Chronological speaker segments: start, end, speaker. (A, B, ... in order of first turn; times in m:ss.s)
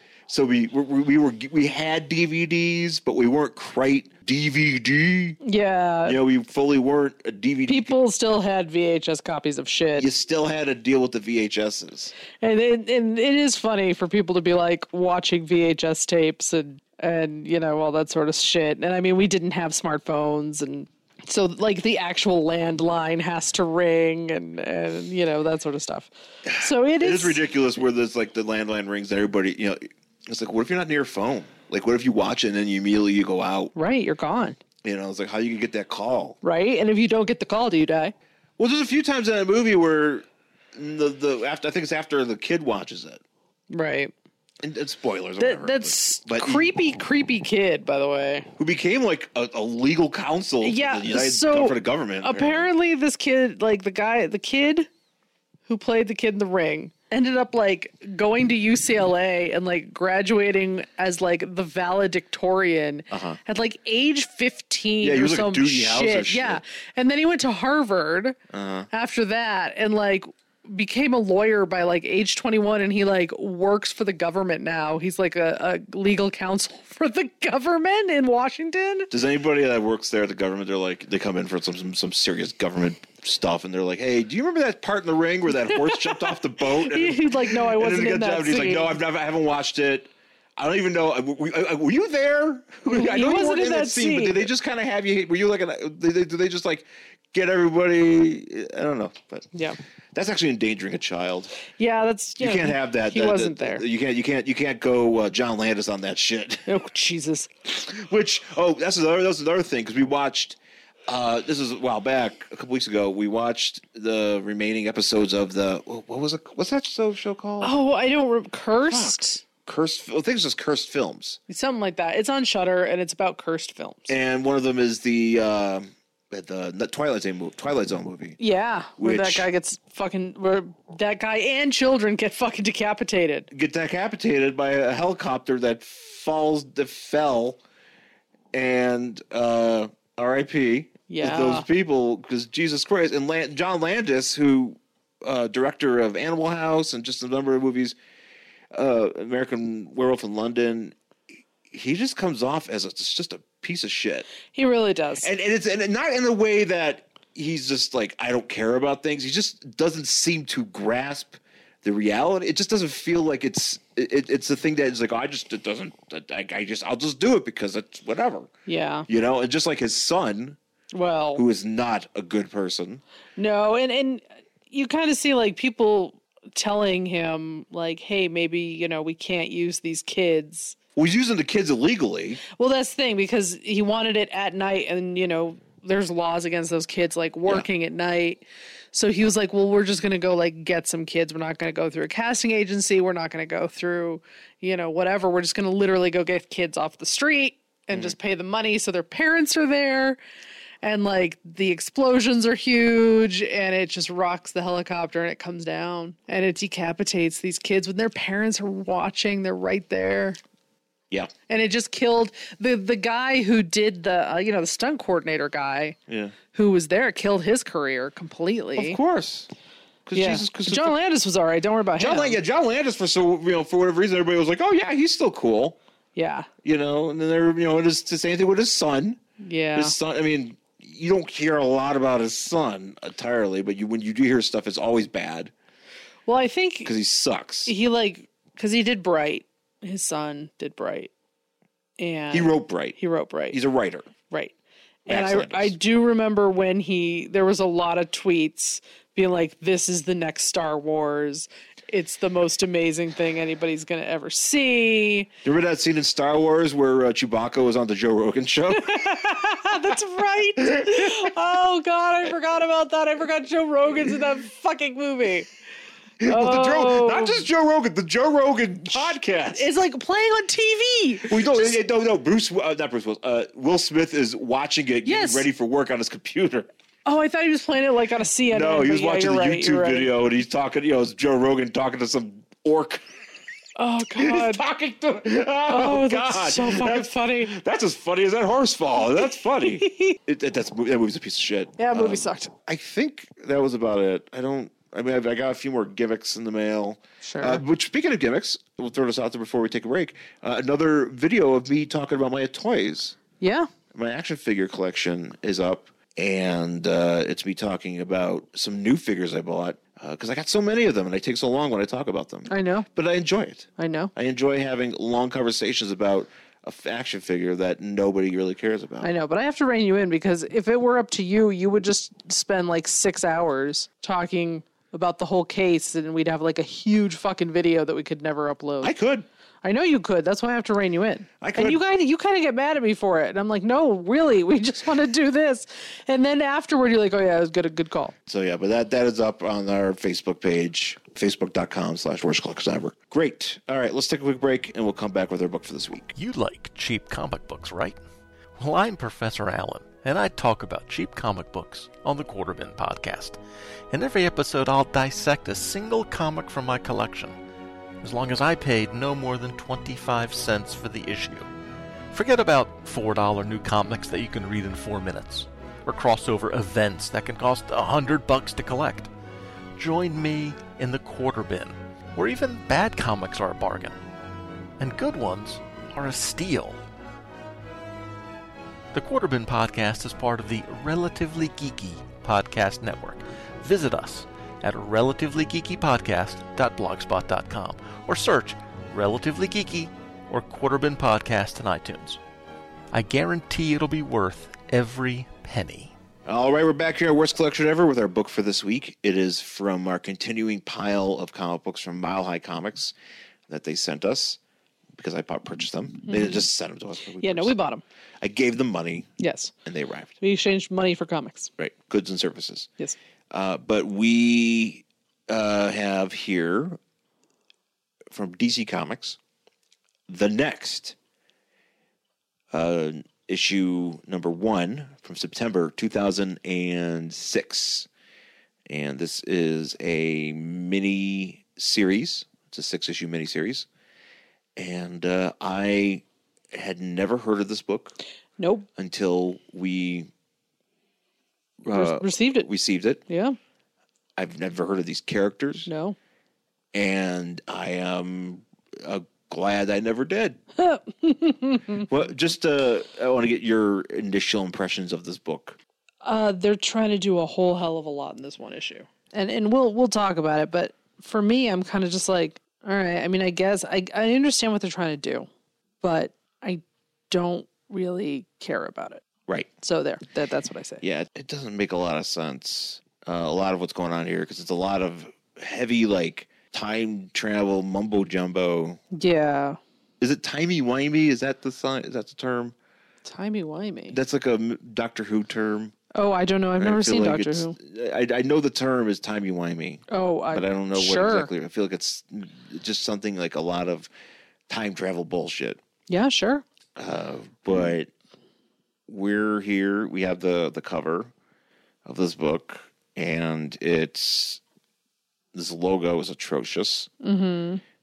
0:00.3-0:05.4 A
0:05.4-0:06.2 B
0:06.0-0:08.0 A
0:07.7-0:10.1 B
0:10.0-0:12.1 A
0:12.4-0:27.4 B
0:26.5-0:33.7 A
0:33.8-0:34.6 B
0:34.8-0:36.4 A
0:36.4-0:38.1 B
0:38.6-0:43.2 A
0:43.7-0:44.1 B
0:44.6-0:46.7 A
0:45.4-0:48.5 B
0:48.6-0:52.7 A
0:50.6-0:54.9 B
0:55.7-1:08.4 B
1:03.1-1:03.4 A
1:05.0-1:06.6 A
1:08.5-1:08.9 A
1:08.9-1:19.1 B
1:19.1-1:39.5 A
1:25.6-1:29.0 B
1:32.9-1:34.5 B
1:40.1-1:41.5 A
1:41.8-1:43.8 B
1:42.4-1:46.7 A
1:46.7-1:47.5 B
1:47.7-1:57.7 A
1:57.6-1:59.4 B
1:58.9-2:01.4 A
2:01.5-2:04.1 B
2:04.1-2:08.4 A
2:08.4-2:13.5 B
2:09.0-2:09.5 A
2:13.5-2:17.6 A
2:18.5-2:28.0 A
2:21.1-2:21.7 B
2:28.7-2:31.0 A
2:31.7-2:34.3 A
2:34.5-2:35.3 B
2:35.2-2:48.5 A
2:48.7-2:49.1 B
2:49.1-2:50.6 A
2:50.9-2:51.4 B
2:51.4-2:53.0 A
2:53.4-3:00.8 B
3:01.0-3:02.4 A
3:02.6-3:08.4 B
3:08.9-3:20.2 B
3:20.8-3:30.4 B
3:31.5-3:36.0 B
3:36.1-3:36.4 A
3:36.5-3:39.0 B
3:38.8-3:39.5 A
3:40.1-3:41.0 A
3:40.2-3:42.4 B
3:42.0-3:45.8 A
3:46.2-3:46.5 B
3:46.6-3:49.2 A
3:49.4-3:50.0 B
3:49.8-3:55.5 A
3:56.3-3:56.9 B
3:56.8-3:57.7 A
3:57.7-4:01.1 B
4:02.0-4:03.6 B
4:02.3-4:03.0 A
4:03.5-4:04.1 A
4:05.1-4:15.3 B
4:05.1-4:05.8 A
4:15.4-4:19.3 A
4:18.7-4:25.5 B
4:20.6-4:21.3 A
4:26.2-4:29.7 A
4:26.2-4:27.5 B
4:29.0-4:31.6 B
4:31.2-4:36.7 A
4:35.0-4:35.5 B
4:37.1-4:40.1 B
4:38.5-4:43.0 A
4:43.8-4:44.6 B
4:44.2-5:03.2 A
4:45.7-4:47.6 B
4:49.8-4:50.2 B
4:51.8-4:52.5 B
4:57.2-4:57.6 B
5:03.4-5:03.7 B
5:03.9-5:19.1 A
5:12.5-5:12.9 B
5:13.8-5:14.1 B
5:19.0-5:28.9 B
5:28.8-5:29.3 A
5:29.6-5:38.1 B
5:31.4-5:31.8 A
5:38.3-5:46.2 A
5:46.2-5:48.0 C
5:48.6-5:53.4 C
5:53.9-5:57.4 C
5:58.0-6:01.5 C
6:02.1-6:09.1 C
6:09.8-6:14.0 C
6:14.8-6:16.8 C
6:18.9-6:32.2 C
6:32.9-6:35.9 C
6:36.2-6:42.9 A
6:43.5-6:44.4 A
6:45.0-6:47.6 A
6:46.1-6:46.5 B
6:47.2-6:47.8 B
6:48.2-6:49.1 A
6:49.2-6:49.5 B
6:49.6-6:50.1 A
6:50.2-6:51.5 B
6:51.6-6:52.7 A
6:53.3-6:56.8 A
6:58.1-6:59.2 A
7:00.1-7:01.0 A
7:02.5-7:07.9 A
7:08.7-7:13.7 A
7:14.6-7:18.0 A
7:18.4-7:18.7 B
7:18.8-7:20.1 A
7:21.6-7:23.0 A
7:21.7-7:22.5 B
7:23.1-7:23.4 B
7:24.2-7:25.7 A
7:25.7-7:26.0 B
7:26.7-7:30.4 A
7:30.6-7:31.9 B
7:31.9-7:35.6 A
7:36.0-7:45.3 B
7:45.8-7:49.0 B
7:49.6-7:50.8 B
7:50.8-7:58.8 A
7:58.9-7:59.6 B
8:00.0-8:02.6 A
8:03.0-8:04.0 B
8:03.9-8:05.7 A
8:06.0-8:07.6 B
8:06.6-8:13.9 A
8:09.9-8:11.3 B
8:14.5-8:15.6 A
8:15.9-8:16.4 B
8:16.8-8:17.9 A
8:18.9-8:21.1 A
8:21.9-8:24.4 A
8:25.3-8:26.9 A
8:27.0-8:27.6 B